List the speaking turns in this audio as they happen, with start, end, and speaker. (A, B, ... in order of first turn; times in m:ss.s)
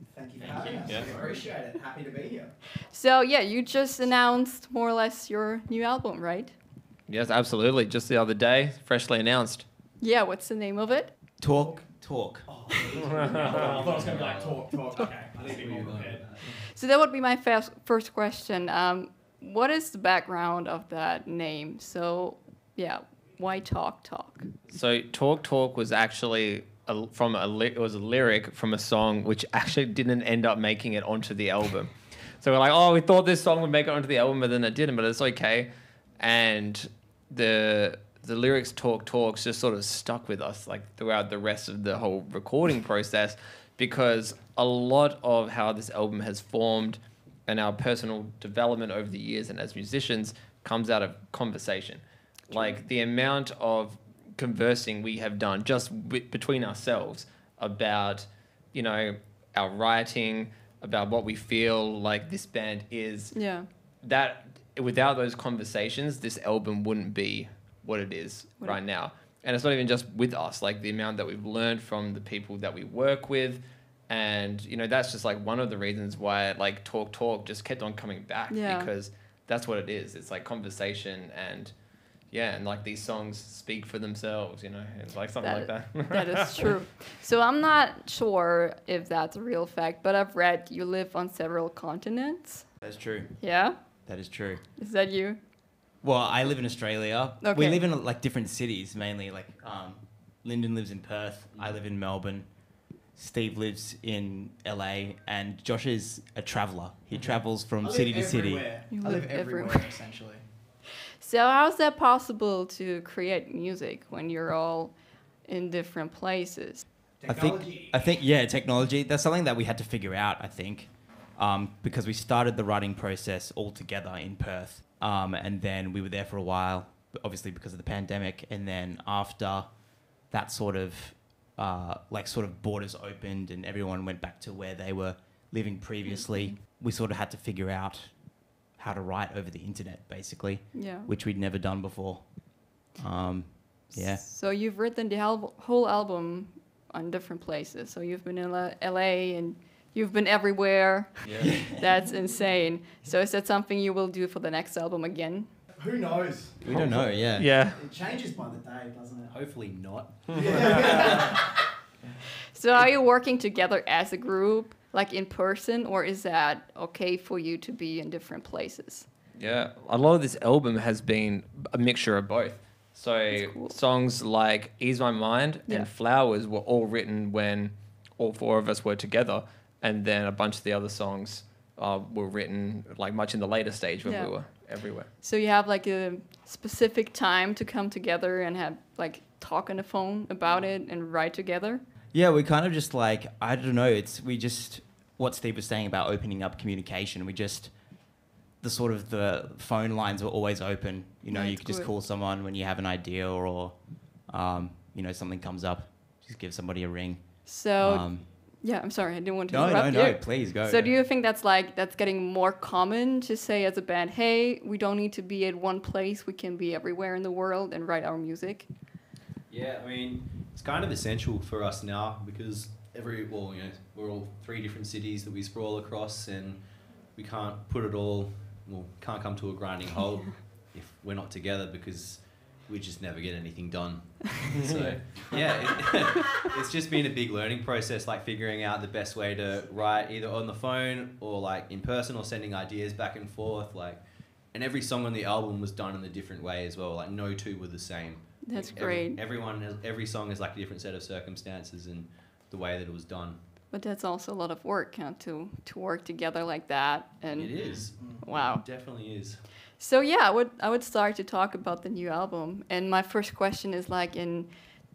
0:00.1-0:02.5 A
0:00.4-0:01.2 B
0:00.8-0:01.1 C
0:02.9-0:06.5 D
0:07.1-0:09.6 C
0:10.0-0:11.1 D
0:11.4-0:12.5 B
0:12.5-0:16.4 A
0:13.1-0:14.6 E
0:13.3-0:13.8 C
0:15.4-0:16.4 E
0:16.5-0:24.5 D
0:24.7-1:03.4 C
1:03.3-1:03.7 D
1:04.0-1:21.7 C
1:18.5-1:18.9 D
1:22.3-1:26.6 C
1:25.4-1:32.7 D
1:32.8-1:34.6 B
1:33.4-1:35.4 D
1:36.0-1:42.5 B
1:37.4-1:37.8 D
1:41.5-1:41.8 E
1:43.1-1:48.7 B
1:47.8-1:50.4 A
1:48.9-1:50.0 D
1:51.2-1:56.8 D
1:57.2-1:58.1 A
1:57.3-2:24.2 B
2:16.1-2:16.4 D
2:20.7-2:21.1 D
2:23.9-2:35.5 D
2:31.2-2:31.6 E
2:31.4-2:31.8 B
2:35.8-2:39.3 A
2:36.6-2:37.4 E
2:36.7-2:37.5 B
2:37.4-2:37.8 C
2:39.3-2:41.1 E
2:40.2-2:41.6 A
2:40.5-2:40.9 C
2:42.5-2:49.1 D
2:49.4-3:05.1 C
2:53.3-2:53.8 D
3:04.0-3:11.8 D
3:12.1-3:28.3 B
3:21.3-3:21.9 D
3:27.4-3:38.7 D
3:29.5-3:30.9 B
3:39.5-4:13.4 E
3:54.5-3:55.4 C
4:08.4-4:09.2 D
4:13.7-4:18.7 D
4:17.3-4:19.4 E
4:17.9-4:18.2 A
4:19.8-4:24.5 D